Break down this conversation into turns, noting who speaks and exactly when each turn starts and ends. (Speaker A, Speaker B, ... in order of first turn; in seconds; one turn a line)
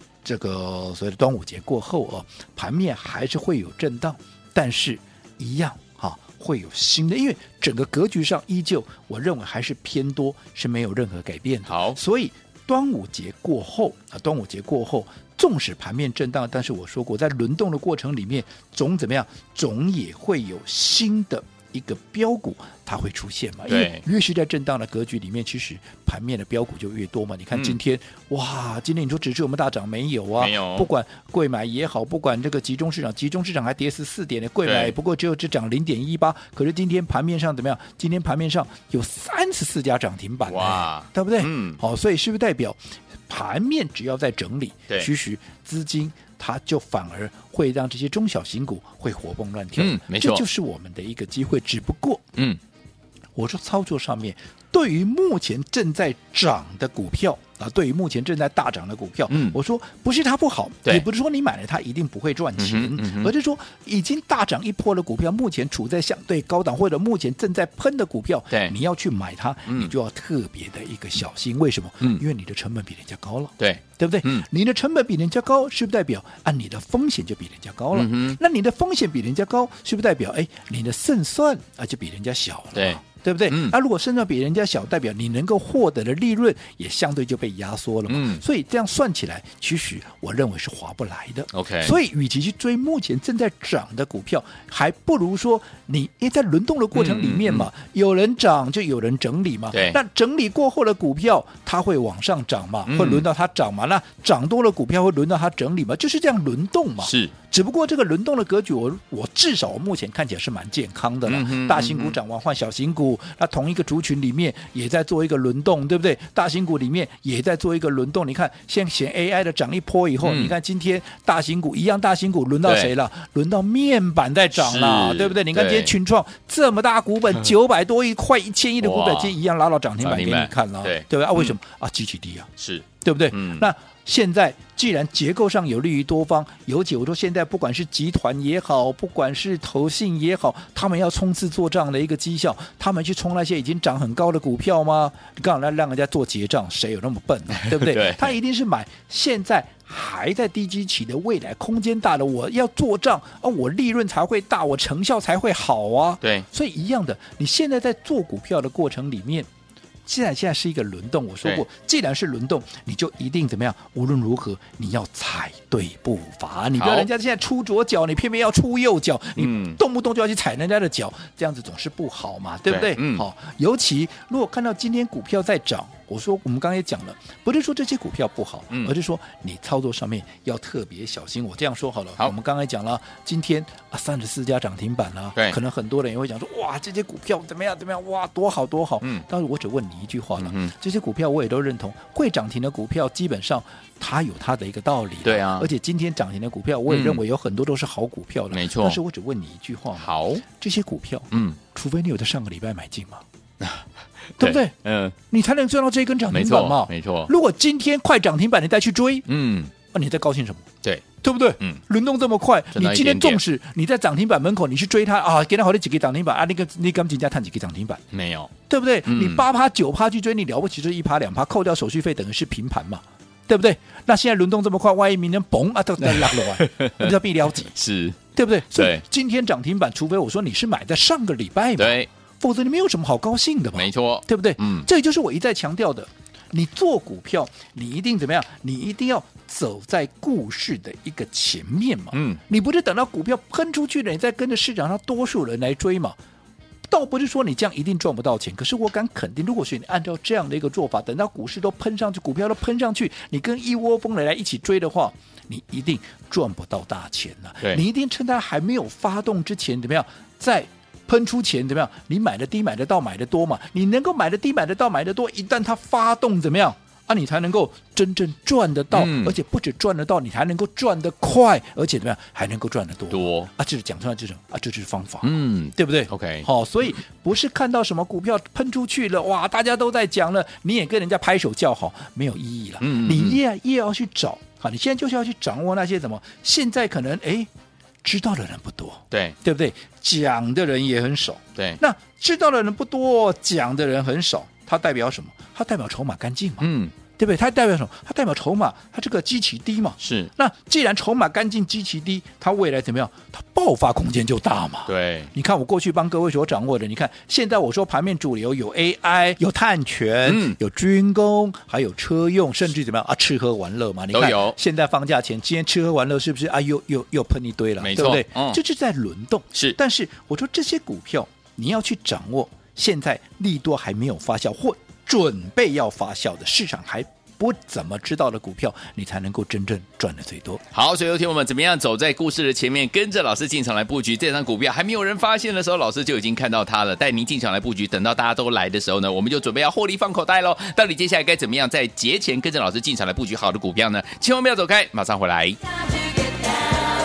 Speaker A: 0.2-52.3
Speaker B: 11.7-12.0
Speaker B: 23.7-24.0
Speaker B: 27.5-27.8
Speaker B: 30.4-30.9
Speaker B: 34.6-35.0
Speaker B: 40.4-41.8
Speaker B: 49.8-50.5
Speaker A: 53.3-132.5
Speaker B: 59.3-59.6
Speaker B: 62.6-63.3
Speaker B: 69.7-69.9
Speaker B: 73.6-74.5
Speaker B: 77.9-78.4
Speaker B: 82.7-83.8
Speaker B: 88.1-88.4
Speaker B: 91.5-91.9
Speaker B: 96.9-97.7
Speaker B: 99.7-100.0
Speaker B: 102.8-103.3
Speaker B: 107.0-107.3
Speaker B: 111.2-112.2
Speaker B: 120.2-120.5
Speaker B: 122.6-122.9
Speaker B: 124.5-125.9
Speaker B: 128.8-129.3
Speaker B: 130.0-131.6
Speaker B: 132.6-133.7
Speaker A: 133.0-159.5
Speaker B: 147.6-148.3
Speaker B: 156.2-156.5
Speaker A: 160.1-203.2
Speaker B: 166.8-167.1
Speaker B: 169.3-169.8
Speaker B: 172.7-173.2
Speaker B: 189.0-189.2
Speaker B: 190.4-190.7
Speaker B: 195.2-195.7
Speaker B: 196.9-197.2
Speaker B: 198.5-199.0
Speaker B: 199.9-200.4
Speaker B: 201.3-201.6
Speaker B: 204.4-205.2
Speaker A: 204.4-204.8
Speaker A: 205.3-209.3
Speaker B: 206.3-207.3
Speaker B: 209.3-209.7
Speaker A: 209.9-210.7
Speaker A: 211.2-218.0
Speaker B: 212.7-213.4
Speaker B: 218.1-218.5
Speaker A: 218.7-227.7
Speaker B: 219.0-219.4
Speaker B: 226.0-227.2
Speaker B: 227.7-229.0
Speaker A: 228.3-246.2
Speaker B: 231.8-232.1
Speaker B: 233.7-234.9
Speaker B: 242.1-242.4
Speaker A: 246.9-287.5
Speaker B: 268.9-269.4
Speaker B: 273.1-273.5
Speaker B: 275.2-276.5
Speaker B: 282.8-283.4
Speaker A: 288.0-330.6
Speaker B: 289.1-289.4
Speaker B: 296.6-296.9
Speaker B: 300.0-300.3
Speaker B: 304.9-305.3
Speaker B: 310.2-310.6
Speaker B: 314.1-314.6
Speaker B: 317.8-318.6
Speaker B: 330.7-345.6